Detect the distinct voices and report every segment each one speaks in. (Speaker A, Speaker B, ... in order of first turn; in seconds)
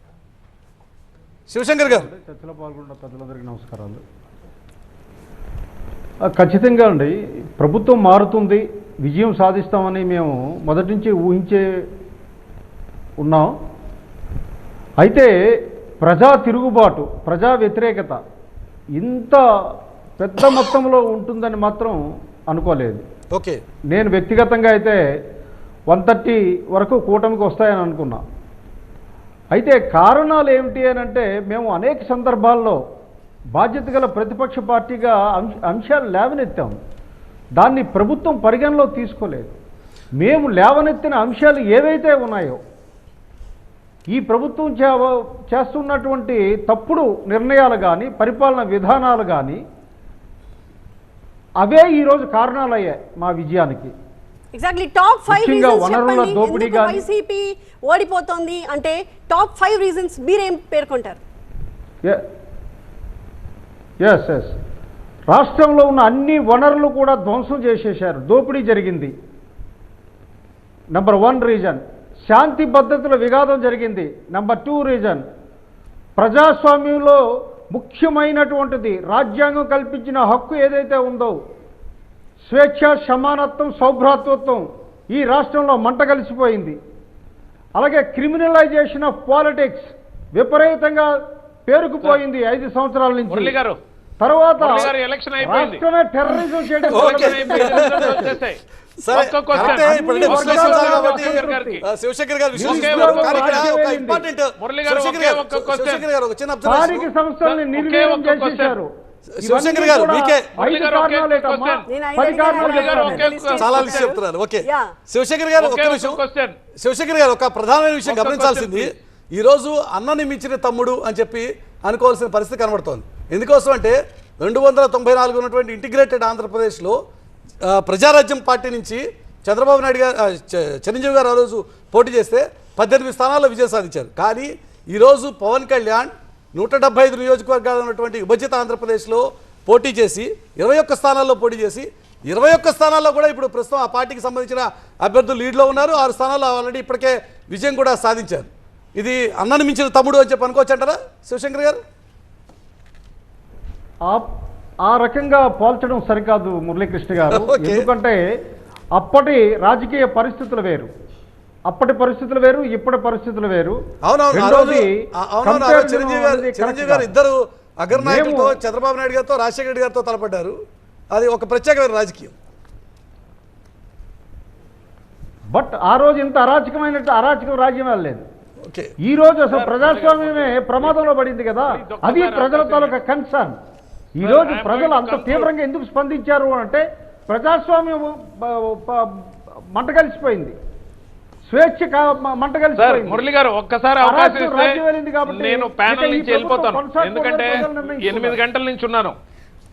Speaker A: 1.5-2.1, 23.3-23.6, 96.9-98.3, 99.0-107.1, 109.3-110.5, 113.5-116.2, 116.8-127.0, 127.6-151.8, 157.3-157.9, 164.0-170.6, 171.1-172.3
Speaker B: 1.8-4.0, 6.3-11.6, 13.2-13.5, 15.0-15.3, 16.0-18.2, 19.0-19.4, 20.2-22.0, 22.5-23.0, 23.9-25.0, 25.9-28.2, 29.5-32.8, 33.5-36.7, 37.6-39.5, 40.2-42.6, 44.1-49.6, 51.6-53.9, 55.3-57.0, 64.0-64.5, 65.3-69.1, 70.9-75.2, 76.2-77.2, 77.7-81.4, 82.4-86.8, 87.8-91.1, 91.7-93.6, 94.2-98.2, 99.6-101.8, 102.6-104.3, 106.6-108.9, 109.4-113.4, 154.8-158.2, 158.9-160.9, 161.7-163.8, 164.3-167.1, 167.9-168.6, 175.5-178.2, 179.0-183.6, 184.2-190.5, 191.4-193.2, 194.0-198.4
Speaker C: 54.5-61.2, 111.9-114.9
Speaker D: 93.3-93.8, 94.6-95.8, 96.8-98.6, 99.1-101.8, 102.6-103.7, 104.6-106.0, 107.4-108.7, 110.5-114.2, 115.6-116.5, 118.0-119.0, 179.5-181.0, 181.7-183.0, 184.2-185.5, 192.8-199.2